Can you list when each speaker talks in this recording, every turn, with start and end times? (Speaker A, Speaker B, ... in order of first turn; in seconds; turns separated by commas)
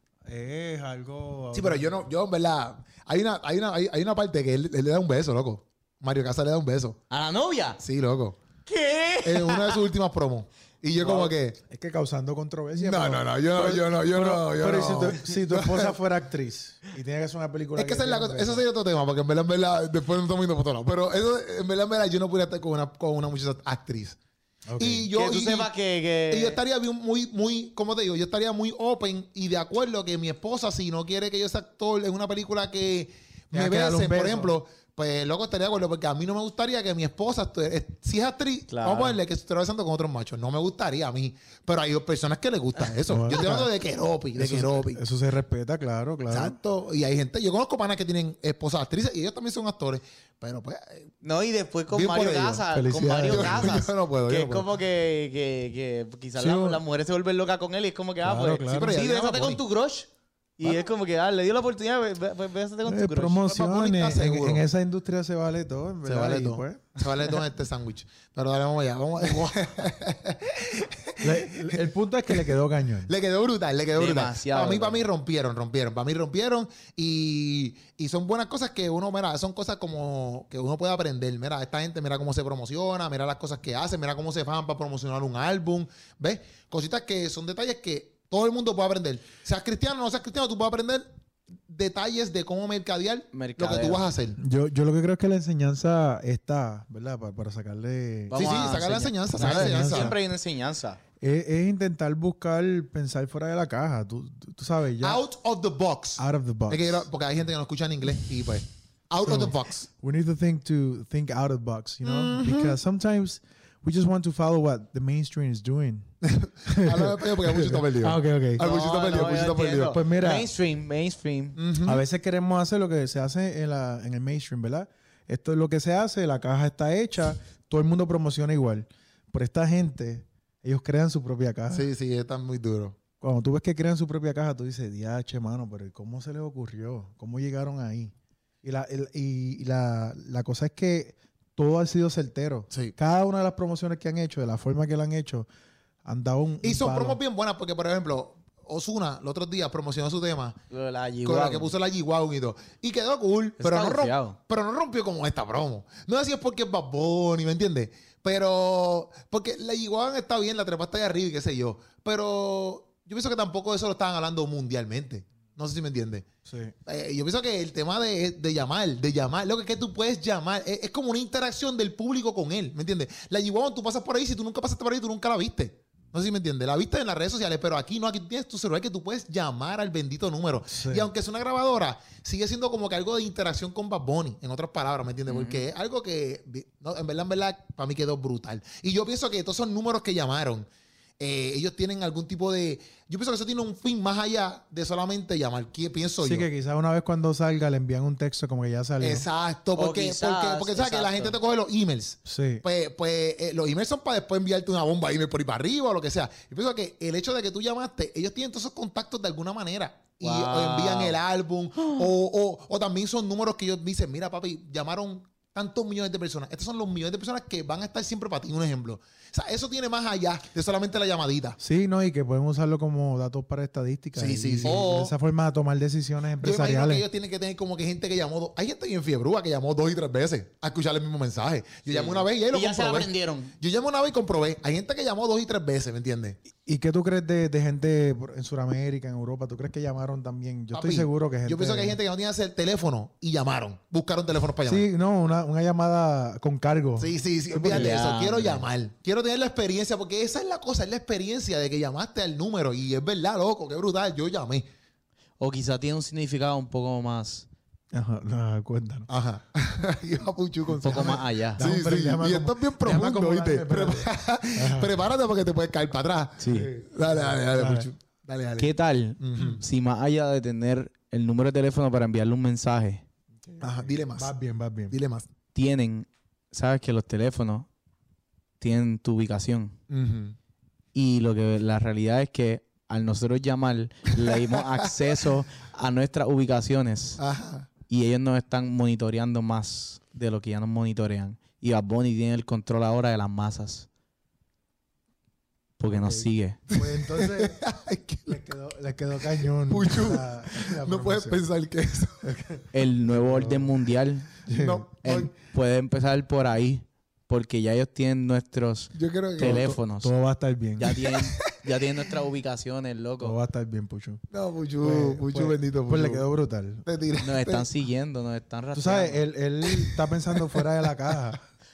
Speaker A: 0.2-2.1, Speaker B: 1.5-7.0, Speaker C: 7.1-7.8, Speaker B: 7.8-8.4, Speaker C: 8.7-9.8, Speaker B: 9.2-11.6, Speaker A: 11.0-18.6, Speaker B: 12.7-15.9, Speaker B: 17.8-24.2, Speaker A: 24.7-25.1, Speaker B: 24.8-25.7, Speaker C: 25.1-26.6, Speaker B: 26.3-45.0, Speaker A: 33.5-34.5, Speaker C: 38.7-39.2, Speaker A: 43.1-43.7, Speaker A: 44.4-46.6, Speaker B: 46.3-51.1, Speaker C: 51.2-63.5, Speaker B: 51.9-54.7, Speaker A: 52.7-53.9, Speaker A: 56.4-56.8, Speaker A: 58.2-59.5, Speaker B: 58.7-59.6, Speaker A: 62.9-66.9, Speaker B: 63.5-64.6, Speaker B: 66.0-72.6, Speaker A: 71.2-73.1, Speaker B: 73.1-91.1, Speaker C: 74.0-75.0, Speaker B: 91.7-94.4, Speaker C: 93.3-94.0, Speaker A: 94.4-98.8, Speaker B: 98.3-100.2, Speaker C: 98.3-101.0, Speaker A: 99.4-100.2, Speaker A: 101.2-105.2, Speaker B: 105.0-109.9, Speaker A: 106.2-107.1, Speaker A: 109.2-116.1, Speaker B: 112.0-112.8, Speaker B: 116.2-120.0, Speaker A: 116.7-118.7, Speaker C: 118.6-121.6, Speaker A: 119.9-120.5, Speaker B: 121.6-122.0, Speaker A: 121.9-131.9, Speaker B: 131.7-133.0, Speaker A: 133.2-145.5, Speaker B: 142.7-142.9, Speaker A: 146.1-147.2, Speaker B: 146.6-150.6, Speaker C: 150.7-151.7, Speaker B: 151.2-166.3, Speaker C: 153.6-154.4, Speaker A: 166.5-166.7, Speaker B: 166.9-190.7, Speaker A: 180.7-181.1, Speaker C: 185.3-185.7, Speaker B: 191.2-196.5, Speaker A: 196.2-199.3, Speaker B: 199.0-221.6, Speaker C: 199.8-201.4, Speaker A: 202.3-202.6, Speaker C: 210.2-211.2, Speaker A: 221.6-227.1, Speaker B: 224.2-224.9, Speaker C: 224.6-225.1, Speaker B: 226.4-236.4, Speaker C: 231.9-233.5, Speaker A: 236.7-242.0, Speaker B: 240.7-244.9, Speaker A: 244.7-248.0, Speaker B: 247.0-254.7, Speaker C: 247.7-248.7, Speaker C: 255.4-257.5, Speaker A: 257.9-259.1, Speaker B: 259.1-269.6, Speaker C: 260.8-261.6, Speaker A: 261.6-264.9, Speaker C: 266.4-266.7, Speaker A: 267.1-267.9, Speaker C: 268.6-273.1, Speaker A: 273.5-275.0, Speaker B: 273.6-274.3, Speaker B: 274.9-275.3, Speaker C: 275.6-277.7, Speaker C: 278.6-279.8, Speaker B: 279.9-280.4, Speaker C: 280.9-287.2, Speaker B: 284.2-284.6, Speaker B: 287.2-287.7, Speaker C: 287.9-293.9, Speaker C: 295.8-296.6, Speaker A: 295.9-297.6, Speaker B: 296.7-298.5, Speaker A: 298.3-301.4, Speaker B: 299.6-302.3, Speaker A: 302.2-303.7, Speaker C: 302.7-304.3, Speaker A: 304.5-304.9, Speaker B: 304.6-305.3, Speaker C: 305.0-310.1, Speaker B: 308.9-309.7, Speaker A: 309.4-311.0, Speaker C: 310.8-313.4, Speaker B: 311.1-311.5, Speaker A: 313.2-314.2, Speaker B: 314.3-316.2, Speaker A: 314.8-316.8, Speaker B: 316.9-317.7, Speaker C: 317.2-319.2, Speaker A: 318.7-321.4, Speaker B: 319.6-320.7